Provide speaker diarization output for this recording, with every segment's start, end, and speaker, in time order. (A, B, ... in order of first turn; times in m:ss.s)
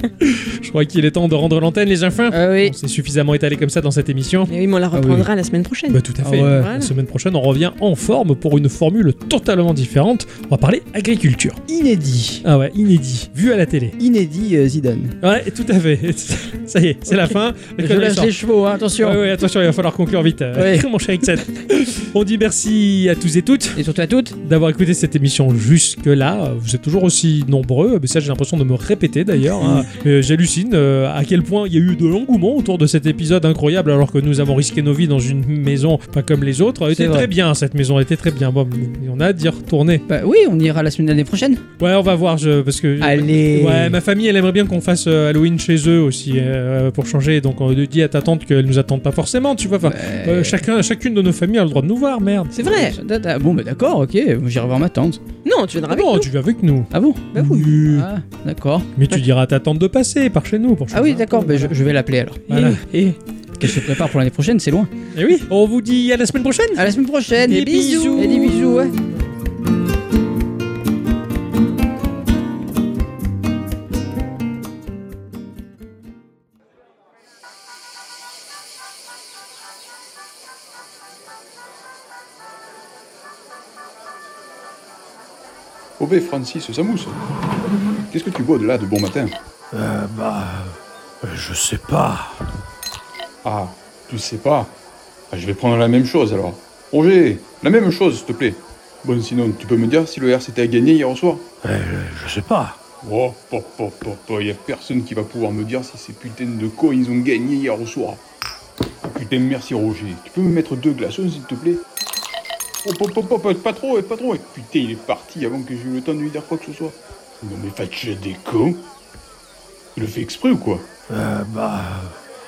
0:00.2-0:04.5 A
0:02.3-0:02.7 B
0:04.5-0:06.9 C
0:04.9-0:05.3 B
0:05.9-0:11.6 A
0:06.2-0:06.7 B
0:11.7-0:12.4 B
0:12.4-0:14.0 A
0:14.0-0:15.2 B
0:15.2-0:18.3 A
0:17.8-0:19.2 B
0:19.0-0:23.8 A
0:20.6-0:20.8 B
0:23.8-0:24.4 B
0:24.4-0:40.0 A
0:29.6-0:29.9 B
0:36.9-0:37.3 B
0:40.1-0:41.6 B
0:41.8-0:52.8 A
0:43.0-0:44.0 B
0:49.8-0:50.6 B
0:52.5-0:53.0 C
0:52.6-0:55.2 B
0:55.4-0:56.3 C
0:55.9-0:58.1 A
0:56.9-0:58.9 B
0:57.3-0:57.7 C
0:59.0-1:01.8 A
1:00.9-1:02.5 B
1:02.5-1:02.8 A
1:02.5-1:03.2 C
1:03.6-1:04.9 B
1:05.1-1:06.9 A
1:06.8-1:08.9 B
1:07.5-1:08.6 C
1:07.5-1:08.5 A
1:26.0-1:27.2 D
1:28.1-1:29.4 D
1:29.7-1:32.5 E
1:33.4-1:34.8 D
1:35.3-1:41.5 D
1:41.6-1:42.8 E
1:43.0-1:48.2 D
1:49.0-1:51.8 D
1:52.8-1:58.9 D
2:00.0-2:00.9 D
2:01.1-2:02.2 E